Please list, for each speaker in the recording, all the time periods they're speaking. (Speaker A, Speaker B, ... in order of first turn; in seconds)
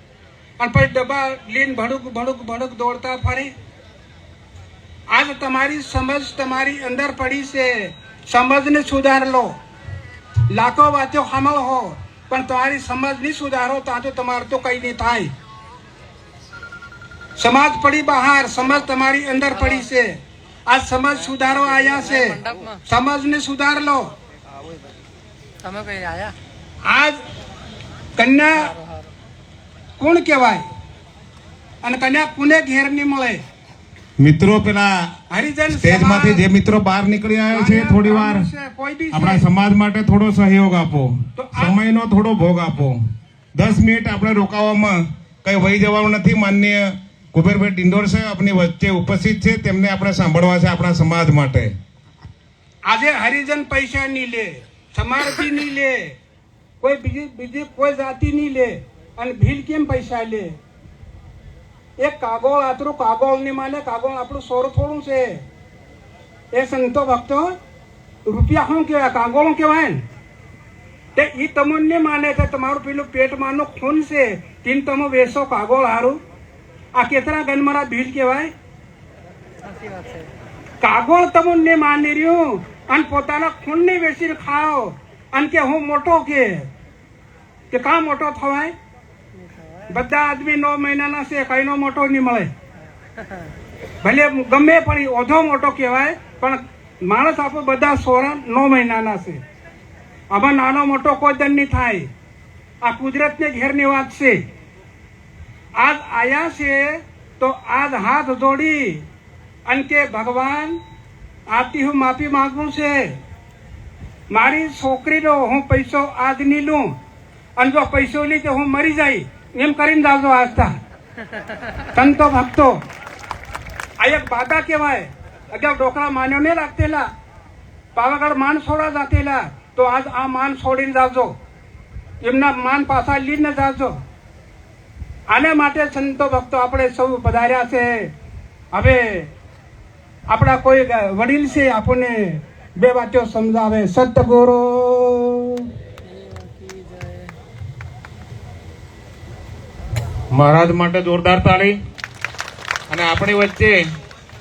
Speaker A: 0.6-3.5, 5.1-9.6, 10.5-15.3, 17.4-24.1, 26.8-27.2, 28.2-28.8, 30.0-30.6, 31.8-33.4, 35.3-36.4, 37.5-39.4, 41.4-41.8, 52.9-56.2, 56.8-60.6, 62.0-65.4, 66.5-67.5, 68.3-70.0, 71.2-76.2, 77.0-78.5, 80.8-86.7, 87.7-88.7, 89.9-92.5, 94.0-99.4, 100.3-102.1, 102.8-104.4, 105.8-109.0, 109.7-110.8, 111.5-113.2, 114.3-117.0, 117.6-120.8, 121.9-122.8, 124.0-127.1, 128.0-131.3, 132.2-134.0, 135.3-138.1, 138.7-139.3, 140.3-145.7
Speaker B: 25.6-26.3, 79.8-80.1, 146.1-147.3
Speaker C: 34.2-35.0, 35.7-38.5, 39.1-43.0, 43.6-51.7, 150.3-151.8, 152.9-153.8